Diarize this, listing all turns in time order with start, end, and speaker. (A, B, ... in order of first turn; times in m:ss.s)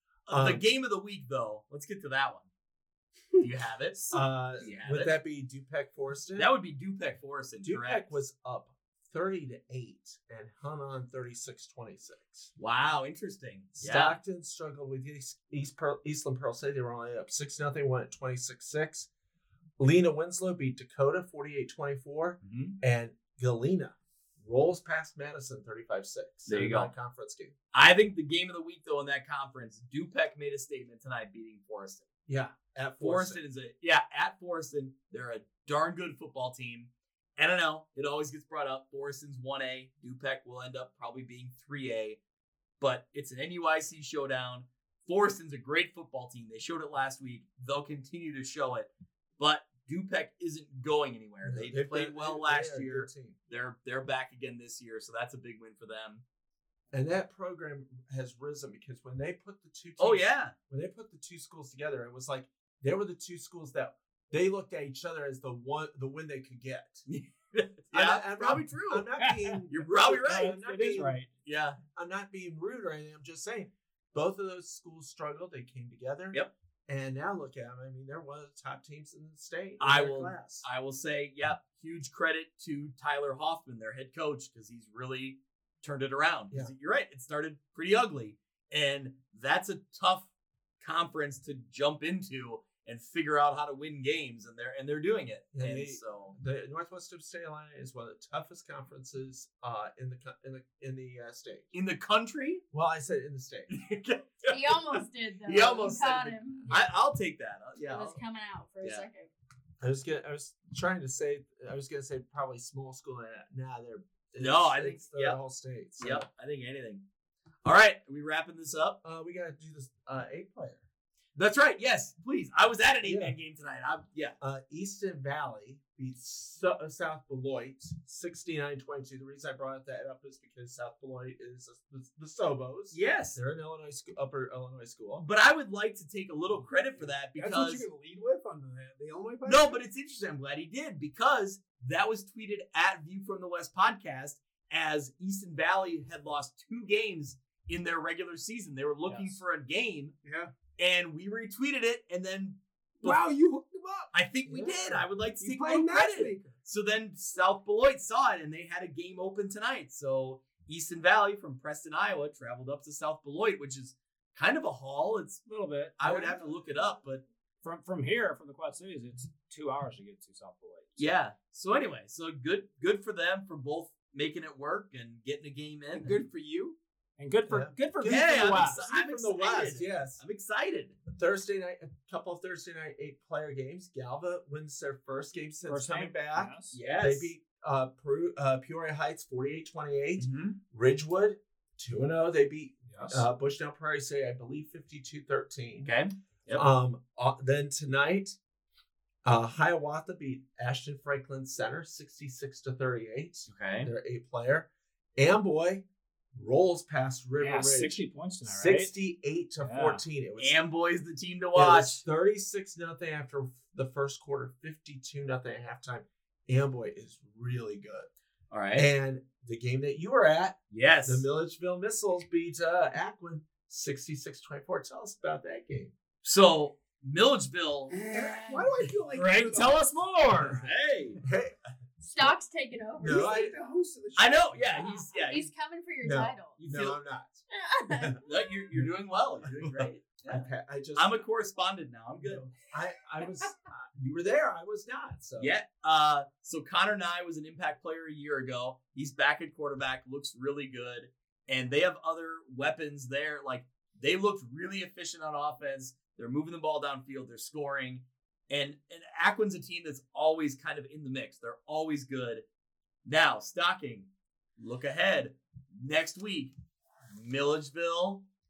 0:00.3-0:02.5 A
0:00.3-0:00.6 B
0:03.4-0:05.2 A
0:04.1-0:06.5 B
0:06.4-0:08.1 A
0:07.6-0:12.5 B
0:12.6-0:14.2 A
0:13.8-0:19.1 B
0:19.8-0:27.5 B
0:22.4-0:22.8 A
0:26.5-0:26.9 A
0:27.7-0:32.1 A
0:32.3-0:33.4 B
0:33.0-0:42.2 A
0:42.8-0:56.2 A
0:51.4-0:53.4 B
0:56.9-1:07.0 B
1:00.0-1:00.5 A
1:07.1-1:09.1 A
1:07.9-1:11.2 B
1:09.2-1:09.6 C
1:09.7-1:11.8 A
1:10.3-1:11.3 C
1:12.0-1:20.6 B
1:19.8-1:30.3 A
1:30.8-1:36.4 A
1:35.5-1:41.7 B
1:41.7-1:42.6 A
1:42.7-1:43.7 B
1:43.7-1:48.2 A
1:44.5-1:47.0 D
1:47.8-1:49.3 D
1:48.8-1:49.1 A
1:49.8-1:56.3 B
1:54.4-1:55.4 A
1:56.0-1:57.0 A
1:57.6-1:59.0 A
1:59.0-2:00.8 B
2:01.4-2:04.4 A
2:03.0-2:03.4 B
2:04.4-2:15.2 B
2:12.9-2:13.4 A
2:15.2-2:17.8 A
2:17.4-2:19.8 E
2:19.5-2:30.2 A
2:29.1-2:29.4 C
2:30.2-2:30.5 E
2:30.8-2:33.3 A
2:33.0-2:36.6 E
2:34.1-2:45.4 A
2:34.6-2:35.0 B
2:45.5-2:46.0 C
2:46.0-2:47.2 A
2:46.0-2:46.3 E
2:47.6-2:51.1 C
2:51.0-2:56.2 A
2:55.9-2:56.8 E
2:57.2-2:58.8 C
2:57.5-3:00.2 B
2:58.0-3:01.0 A
3:01.0-3:15.9 B
3:05.7-3:06.8 C
3:06.7-3:07.3 A
3:10.2-3:10.6 A
3:12.9-3:13.2 C
3:15.8-3:16.7 A
3:16.5-3:18.4 B
3:19.2-3:30.6 B
3:23.5-3:23.9 A
3:27.4-3:28.9 C
3:29.6-3:30.0 C
3:30.4-3:32.0 A
3:31.6-3:38.1 B
3:38.5-3:38.9 A
3:38.7-3:45.9 B
3:40.7-3:41.3 A
3:46.2-3:48.0 A
3:47.9-3:49.9 E
3:48.2-3:48.6 D
3:49.1-3:50.6 C
3:50.6-3:51.2 A
3:51.2-3:51.6 B
3:52.0-3:53.4 D
3:53.0-3:53.6 B
3:53.0-3:55.0 E
3:54.2-3:55.5 A
3:55.1-3:56.6 D
3:56.0-3:58.2 B
3:56.6-3:57.0 A
3:57.5-3:58.4 D
3:58.2-4:02.5 A
3:59.4-4:01.2 B
4:02.2-4:05.5 B
4:05.4-4:22.4 A
4:23.0-4:26.5 A
4:27.1-4:28.2 A